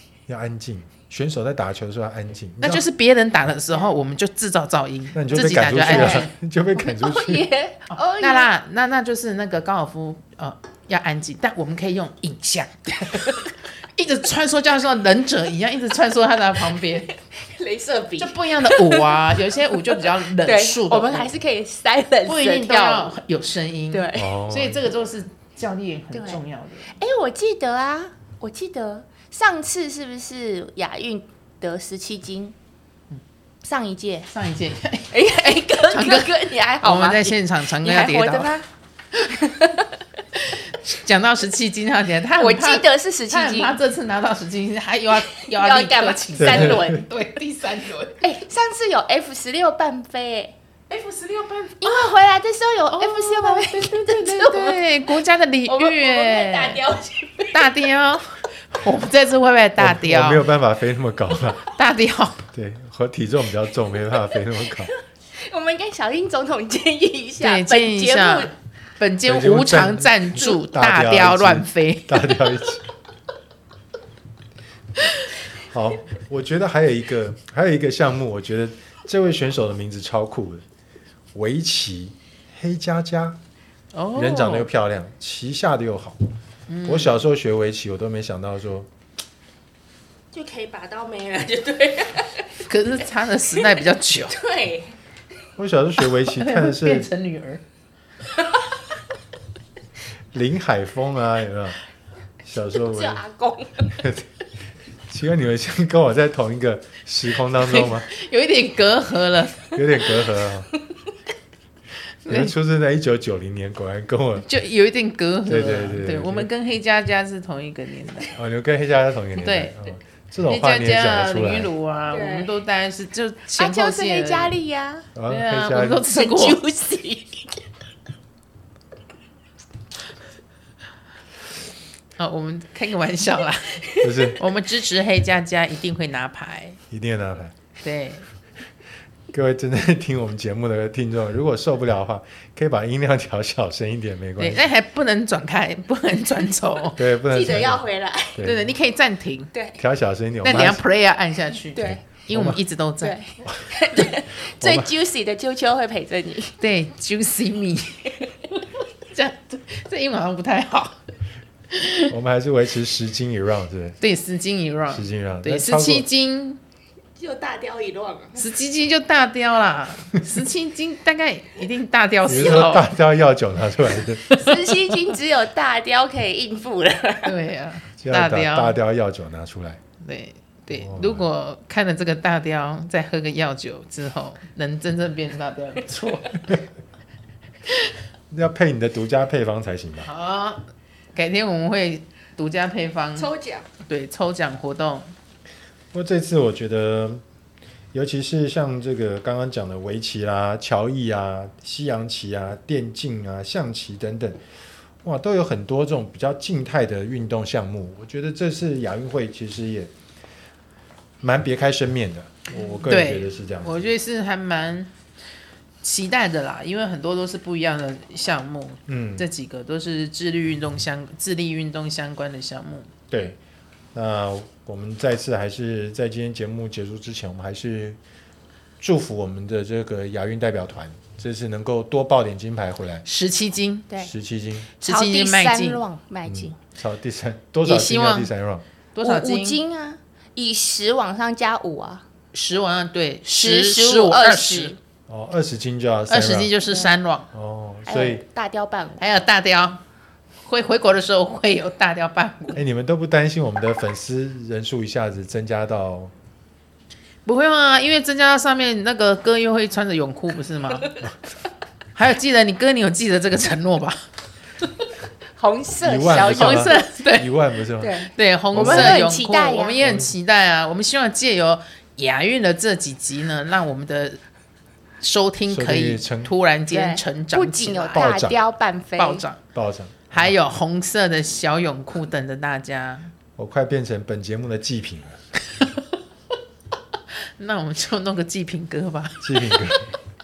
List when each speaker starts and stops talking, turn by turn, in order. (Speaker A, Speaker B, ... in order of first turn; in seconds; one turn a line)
Speaker A: 0.3-2.9
Speaker B: 2.6-6.3
Speaker A: 5.1-7.5
Speaker C: 5.9-8.5
Speaker B: 7.9-13.4
Speaker B: 13.9-17.1
Speaker C: 17.4-23.2
Speaker B: 18.2-21.3
Speaker B: 22.2-26.9
Speaker C: 23.9-24.4
Speaker A: 24.1-24.9
Speaker C: 26.1-32.5
Speaker C: 33.6-34.3
Speaker B: 34.3-38.6
Speaker C: 35.1-39.9
Speaker B: 40.4-48.4
Speaker C: 42.4-43.8
Speaker C: 45.3-47.1
Speaker A: 46.4-47.0
Speaker C: 48.2-57.7
Speaker B: 51.0-51.9
Speaker B: 52.9-56.8
Speaker B: 57.5-60.5
Speaker A: 59.8-61.6
Speaker B: 61.8-62.4
Speaker A: 62.5-64.9
Speaker C: 64.1-68.5
Speaker B: 67.4-72.3
Speaker A: 69.3-72.9
Speaker A: 75.5-80.6
Speaker A: 81.3-83.4
Speaker B: 83.9-84.7
Speaker A: 84.2-86.2
Speaker B: 86.7-87.2
Speaker A: 86.8-88.9
Speaker C: 90.3-92.6
Speaker B: 92.6-94.4
Speaker C: 93.5-94.9
Speaker A: 95.6-97.1
Speaker B: 96.3-97.6
Speaker C: 98.3-98.6
Speaker A: 100.3-101.8
Speaker A: 102.4-103.2
Speaker C: 102.8-104.0
Speaker A: 104.0-104.3
Speaker A: 105.1-108.1
Speaker B: 107.5-109.8
Speaker A: 109.7-110.7
Speaker B: 112.2-112.5
Speaker A: 112.3-114.5
Speaker B: 114.4-118.3
Speaker A: 115.5-116.5
Speaker A: 118.3-121.7
Speaker B: 119.4-119.7
Speaker B: 120.5-124.5
Speaker C: 122.1-122.5
Speaker C: 123.6-125.1
Speaker A: 125.2-126.1
Speaker B: 125.3-126.6
Speaker C: 126.1-127.5
Speaker B: 132.2-136.8
Speaker A: 134.0-134.4
Speaker A: 136.9-137.5
Speaker B: 137.8-138.2
Speaker A: 139.3-144.6
Speaker B: 144.4-147.0
Speaker A: 147.0-148.7
Speaker C: 147.2-148.4
Speaker B: 148.4-149.5
Speaker C: 149.5-149.8
Speaker A: 149.8-150.8
Speaker B: 150.4-153.2
Speaker C: 151.7-152.0
Speaker A: 151.8-152.6
Speaker C: 153.0-156.6
Speaker A: 153.5-154.9
Speaker B: 156.6-158.3
Speaker B: 159.0-161.0
Speaker B: 161.7-162.1
Speaker A: 162.1-164.0
Speaker B: 164.0-166.6
Speaker A: 164.9-166.1
Speaker C: 167.2-168.4
Speaker B: 168.3-172.9
Speaker A: 172.3-174.7
Speaker C: 174.3-177.4
Speaker B: 177.2-178.8
Speaker A: 178.0-179.8
Speaker B: 180.0-186.6
Speaker A: 180.7-181.3
Speaker A: 188.3-190.1
Speaker B: 190.0-190.6
Speaker B: 191.2-193.3
Speaker C: 193.2-193.7
Speaker B: 193.9-195.1
Speaker A: 195.9-197.2
Speaker A: 197.9-204.4
Speaker A: 205.0-209.9
Speaker A: 211.2-213.9
Speaker B: 212.8-214.9
Speaker B: 215.8-222.9
Speaker A: 218.9-219.3
Speaker A: 223.1-223.4
Speaker A: 223.9-228.0
Speaker A: 228.8-233.1
Speaker B: 233.1-233.9
Speaker A: 234.0-234.7
Speaker C: 234.8-236.6
Speaker B: 234.8-235.8
Speaker A: 236.3-238.6
Speaker B: 237.6-238.3
Speaker B: 238.9-239.6
Speaker C: 239.0-242.1
Speaker B: 242.3-244.8
Speaker C: 243.3-244.8
Speaker A: 245.1-246.5
Speaker B: 246.1-247.3
Speaker C: 246.7-246.9
Speaker A: 247.3-248.2
Speaker C: 247.9-249.1
Speaker B: 249.0-249.8
Speaker B: 250.4-252.6
Speaker A: 252.6-256.1
Speaker B: 257.3-260.9
Speaker B: 261.9-264.0
Speaker C: 265.4-267.0
Speaker A: 265.8-268.0
Speaker B: 266.1-267.3
Speaker C: 267.8-269.9
Speaker B: 268.1-274.2
Speaker A: 268.5-269.0
Speaker A: 269.8-270.1
Speaker B: 275.0-278.2
Speaker A: 275.5-276.3
Speaker C: 276.7-279.3
Speaker A: 277.9-278.4
Speaker B: 279.0-279.4
Speaker A: 279.5-280.4
Speaker B: 280.1-283.1
Speaker A: 283.4-285.2
Speaker B: 287.4-289.8
Speaker A: 289.2-289.9